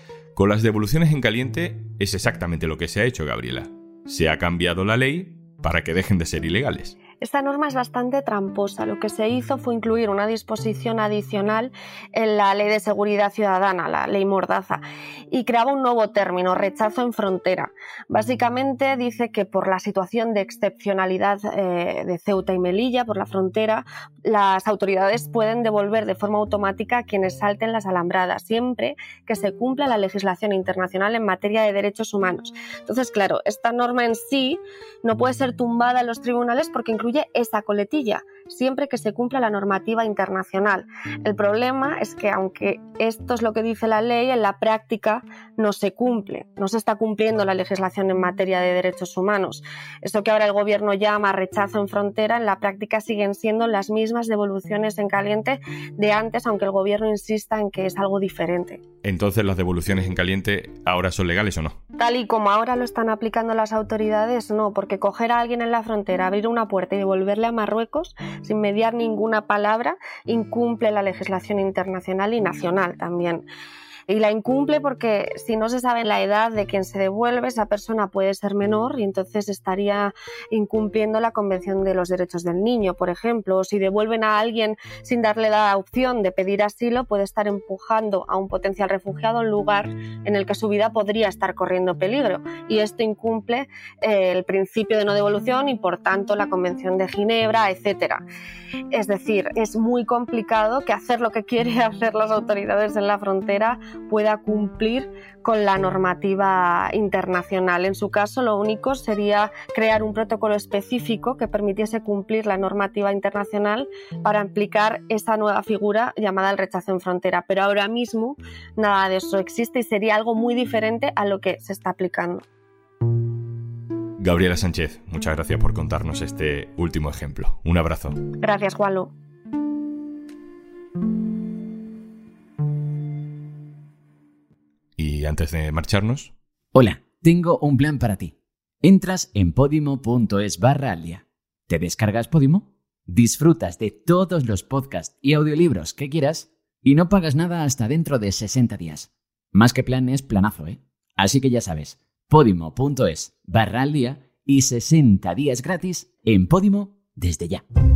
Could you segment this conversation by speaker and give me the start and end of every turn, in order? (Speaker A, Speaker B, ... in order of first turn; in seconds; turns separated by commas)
Speaker A: 0.4-7.0, Speaker B: 7.2-58.8, Speaker A: 59.0-61.8, Speaker B: 62.0-73.5, Speaker B: 74.1-98.2, Speaker B: 98.9-122.5, Speaker A: 124.2-128.2, Speaker B: 128.4-129.1, Speaker A: 135.0-136.3, Speaker C: 136.7-157.6